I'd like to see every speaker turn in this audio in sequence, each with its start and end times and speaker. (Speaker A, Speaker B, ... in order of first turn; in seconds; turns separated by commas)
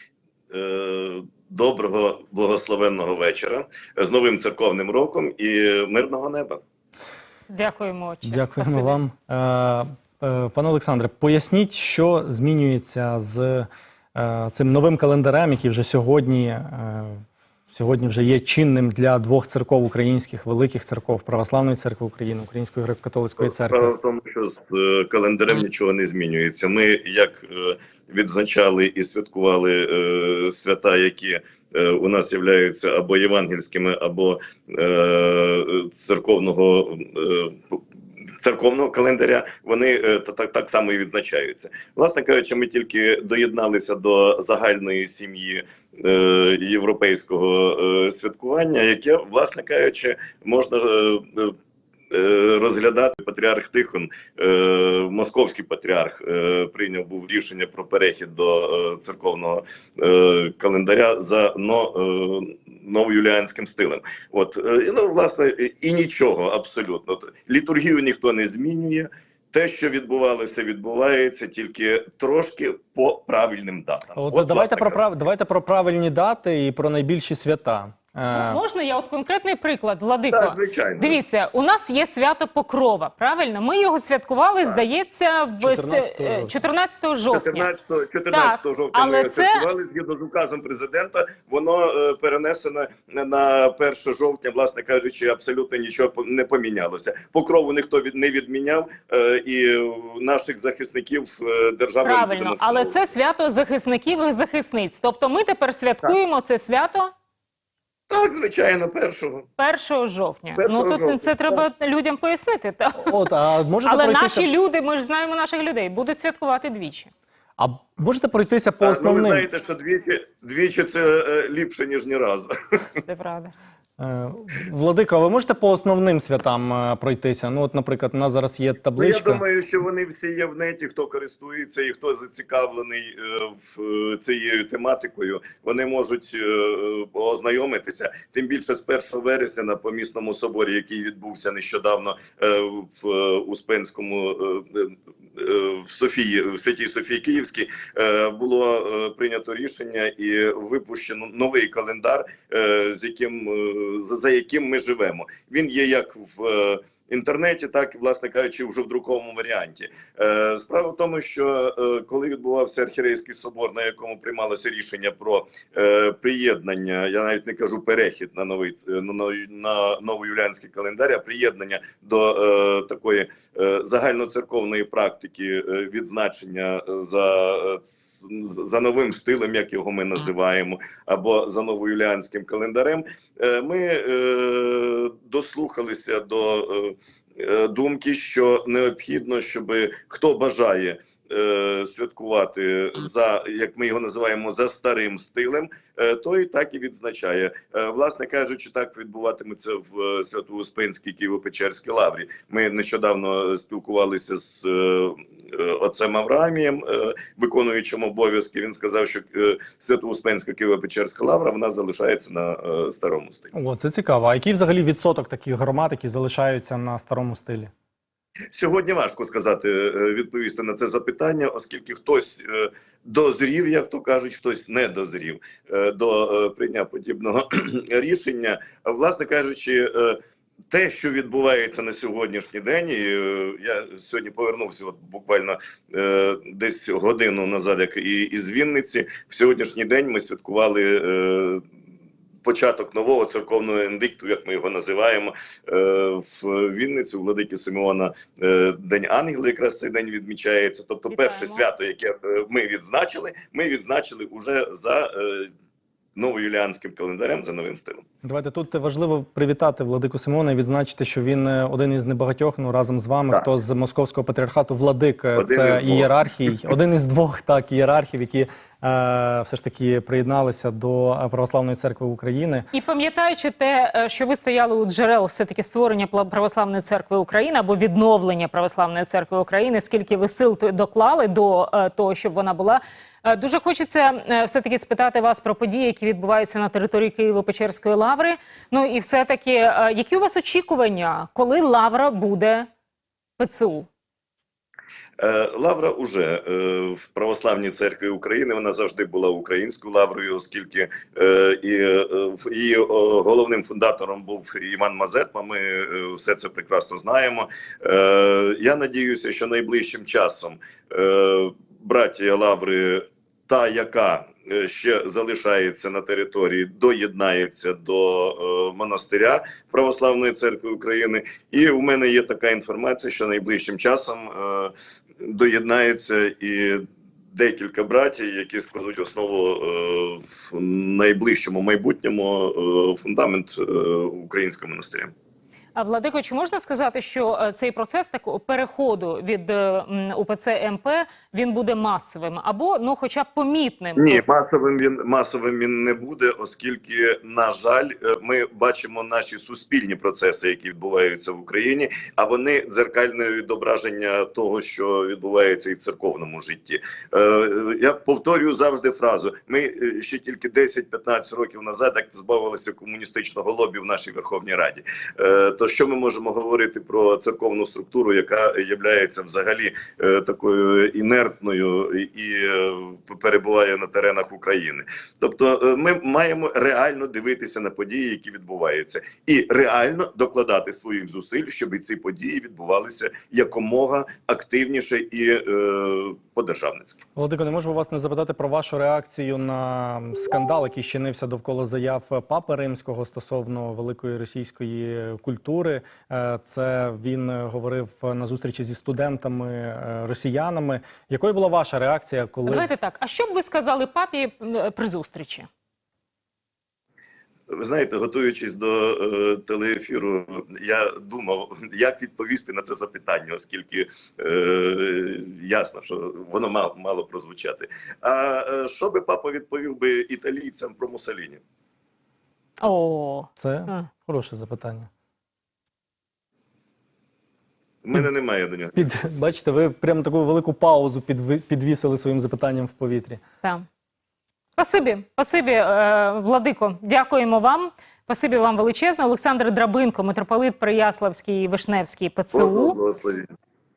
Speaker A: 0.5-6.6, Speaker B: 7.5-9.0, Speaker C: 8.2-23.9, Speaker A: 23.4-37.8, Speaker A: 38.4-51.6, Speaker A: 52.1-75.0, Speaker C: 74.2-78.6, Speaker B: 78.3-87.7, Speaker A: 80.3-81.2, Speaker C: 85.6-86.5, Speaker A: 87.3-103.0, Speaker B: 88.3-89.7, Speaker B: 102.0-107.1, Speaker A: 108.1-109.5, Speaker B: 109.6-113.3, Speaker A: 110.6-111.6, Speaker C: 113.0-114.5, Speaker B: 113.9-117.1, Speaker C: 117.6-119.5, Speaker A: 118.8-122.8, Speaker B: 123.1-123.5, Speaker C: 124.0-129.4, Speaker A: 129.0-213.5, Speaker C: 213.5-217.7, Speaker A: 218.5-230.2, Speaker A: 230.7-241.6, Speaker A: 242.4-255.5, Speaker B: 251.1-251.7, Speaker A: 256.2-258.1, Speaker C: 258.2-272.7, Speaker A: 265.4-266.6, Speaker B: 272.7-292.7, Speaker B: 293.4-293.9, Speaker A: 295.2-335.1, Speaker B: 335.8-344.2, Speaker A: 344.0-387.0, Speaker C: 387.2-402.7, Speaker B: 402.5-405.5, Speaker A: 407.5-421.4, Speaker B: 422.6-423.9, Speaker C: 423.4-424.9, Speaker A: 427.8-428.9, Speaker C: 428.8-433.2, Speaker B: 434.6-442.8, Speaker A: 442.3-443.3